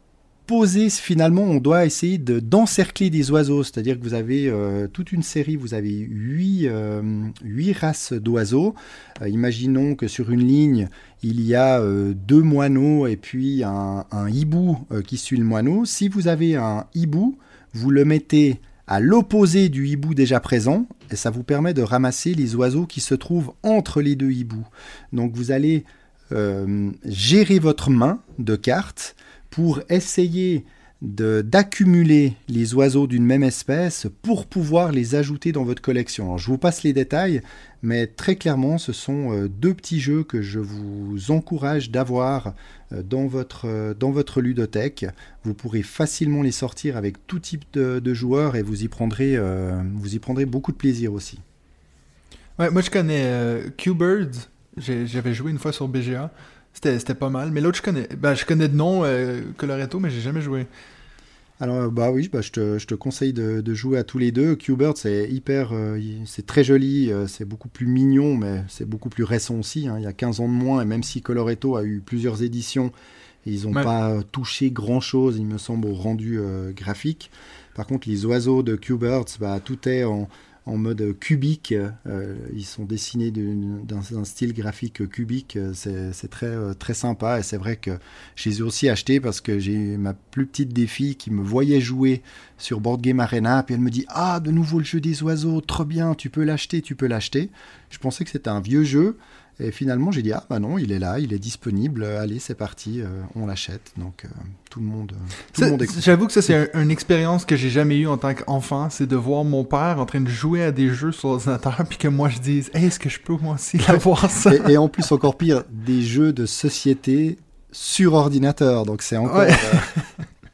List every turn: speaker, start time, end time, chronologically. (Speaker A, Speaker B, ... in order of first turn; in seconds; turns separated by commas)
Speaker A: 0.5-51.4, Speaker B: 52.6-60.7, Speaker A: 61.6-72.9, Speaker A: 73.4-106.0, Speaker B: 105.5-114.7, Speaker A: 113.9-119.9, Speaker B: 119.3-120.0